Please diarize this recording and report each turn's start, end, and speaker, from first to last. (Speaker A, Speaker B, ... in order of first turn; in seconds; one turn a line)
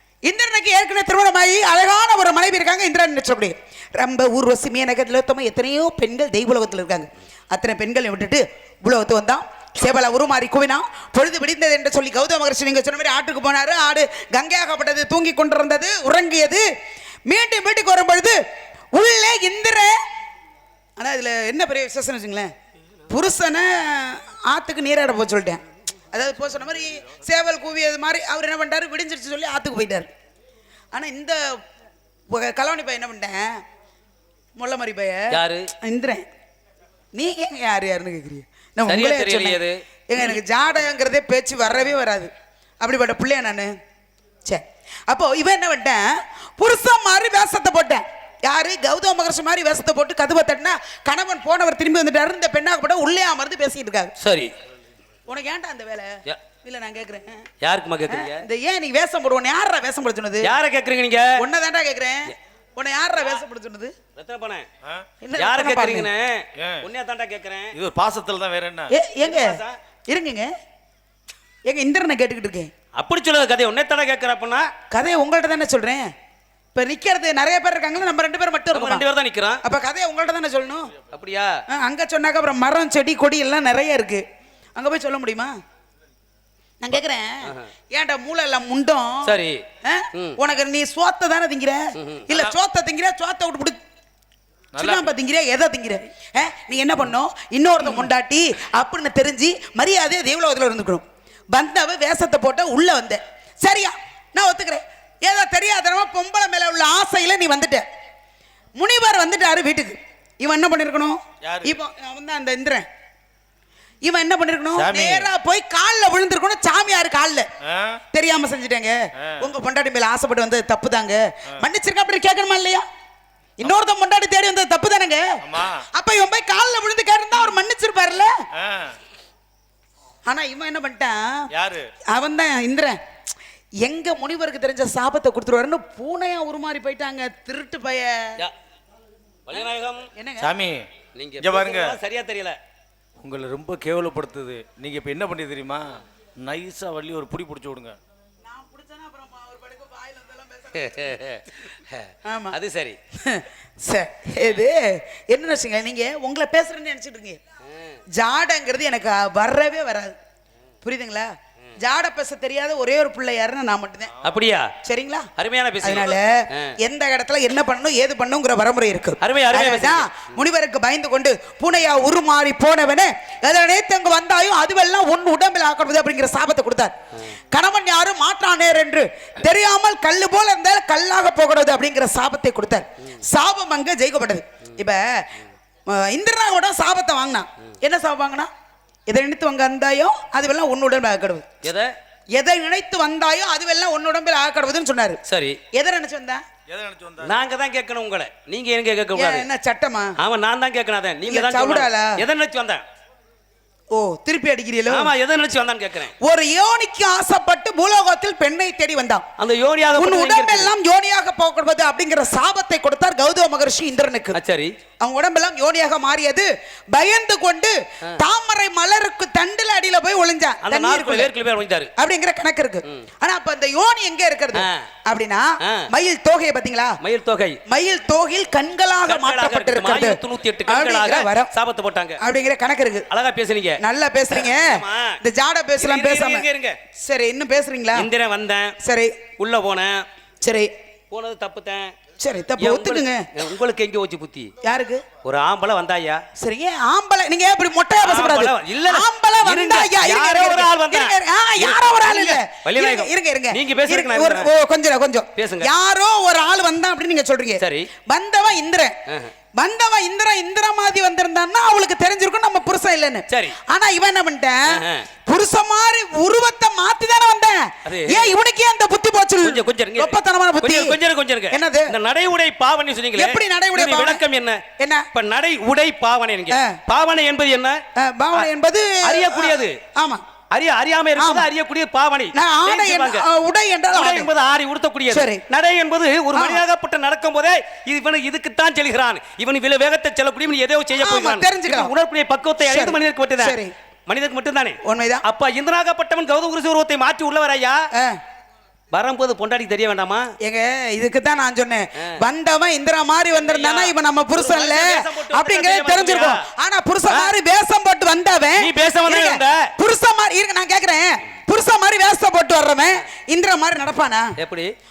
Speaker A: 0.2-16.6
Speaker A: 17.3-18.4
Speaker A: 18.9-19.9
Speaker A: 21.0-22.5
Speaker A: 23.1-25.6
Speaker A: 26.1-30.1
Speaker A: 30.9-31.6
Speaker A: 32.3-33.6
Speaker A: 34.6-36.2
Speaker B: 35.3-35.7
Speaker A: 37.1-43.7
Speaker B: 38.9-40.4
Speaker A: 44.5-54.1
Speaker B: 54.2-54.5
Speaker A: 55.3-57.5
Speaker B: 57.6-58.5
Speaker A: 58.1-60.5
Speaker B: 60.4-61.4
Speaker A: 61.4-63.9
Speaker B: 64.2-64.7
Speaker A: 65.2-66.1
Speaker B: 65.4-67.8
Speaker C: 66.6-66.9
Speaker C: 67.7-68.9
Speaker A: 68.9-70.5
Speaker B: 69.2-69.8
Speaker A: 71.7-72.7
Speaker B: 73.0-74.7
Speaker A: 74.9-76.1
Speaker A: 76.8-79.0
Speaker B: 78.7-79.6
Speaker A: 79.6-80.9
Speaker B: 81.1-81.6
Speaker A: 81.7-84.2
Speaker A: 84.8-85.5
Speaker A: 86.8-89.3
Speaker B: 89.2-89.6
Speaker A: 89.8-93.8
Speaker B: 90.1-90.4
Speaker B: 92.0-92.3
Speaker C: 94.7-95.1
Speaker A: 94.8-107.8
Speaker A: 108.8-112.9
Speaker C: 111.4-111.8
Speaker A: 114.0-117.5
Speaker C: 114.8-115.3
Speaker C: 117.6-118.0
Speaker A: 118.1-122.8
Speaker C: 119.2-119.5
Speaker A: 123.6-125.4
Speaker C: 125.4-125.8
Speaker A: 125.9-128.3
Speaker C: 128.6-129.0
Speaker A: 130.3-131.5
Speaker C: 131.5-131.9
Speaker A: 132.1-133.0
Speaker A: 133.8-138.4
Speaker B: 139.5-140.1
Speaker A: 140.2-140.5
Speaker C: 140.4-140.9
Speaker B: 141.2-142.6
Speaker C: 141.4-142.0
Speaker C: 143.2-148.0
Speaker A: 148.5-151.1
Speaker B: 150.7-153.0
Speaker A: 152.3-152.6
Speaker A: 153.2-157.4
Speaker B: 157.7-158.0
Speaker A: 158.1-160.2
Speaker A: 160.8-164.1
Speaker B: 164.2-164.7
Speaker A: 164.8-165.3
Speaker B: 165.4-166.8
Speaker A: 165.8-185.3
Speaker B: 169.2-170.3
Speaker A: 185.9-188.5
Speaker A: 189.1-191.5
Speaker B: 191.6-191.9
Speaker A: 192.4-195.2
Speaker B: 195.2-195.6
Speaker A: 195.7-196.4
Speaker C: 196.7-197.3
Speaker B: 197.2-199.4
Speaker A: 199.2-200.2
Speaker B: 200.2-202.8
Speaker A: 201.3-202.2
Speaker A: 203.9-205.1
Speaker B: 204.9-206.1
Speaker A: 206.2-209.3
Speaker B: 209.4-210.7
Speaker A: 210.0-214.4
Speaker B: 214.3-214.7
Speaker A: 215.0-221.3
Speaker B: 220.6-221.9
Speaker A: 222.0-227.0
Speaker B: 224.5-224.8
Speaker B: 225.6-225.9
Speaker B: 227.0-227.6
Speaker A: 227.7-231.5
Speaker B: 229.1-232.2
Speaker A: 232.2-233.1
Speaker B: 233.1-235.2
Speaker A: 233.8-236.5
Speaker B: 235.8-236.8
Speaker A: 237.0-238.1
Speaker B: 237.9-238.8
Speaker A: 238.8-239.2
Speaker B: 239.4-240.1
Speaker A: 240.4-240.7
Speaker B: 241.1-241.9
Speaker A: 242.2-243.3
Speaker B: 242.6-244.5
Speaker A: 244.6-245.0
Speaker B: 245.2-246.2
Speaker A: 246.4-259.0
Speaker B: 248.0-254.5
Speaker B: 255.3-255.7
Speaker B: 257.6-257.9
Speaker B: 259.1-259.3
Speaker A: 259.6-271.0
Speaker B: 263.3-263.6
Speaker B: 264.7-265.1
Speaker B: 267.9-268.3
Speaker B: 269.4-277.8
Speaker A: 271.5-271.9
Speaker A: 273.1-274.2
Speaker A: 274.8-275.1
Speaker A: 276.5-276.8
Speaker A: 278.0-280.2
Speaker B: 279.0-279.8
Speaker B: 280.5-283.2
Speaker A: 281.2-281.5
Speaker A: 282.4-284.3
Speaker B: 283.9-293.6
Speaker A: 285.1-285.4
Speaker A: 286.4-286.6
Speaker A: 291.0-291.9
Speaker A: 292.6-293.7
Speaker B: 294.1-297.9
Speaker A: 294.8-295.2
Speaker A: 297.9-298.2
Speaker B: 298.9-300.3
Speaker A: 300.4-314.4
Speaker B: 303.3-306.5
Speaker B: 308.6-309.7
Speaker B: 314.4-314.7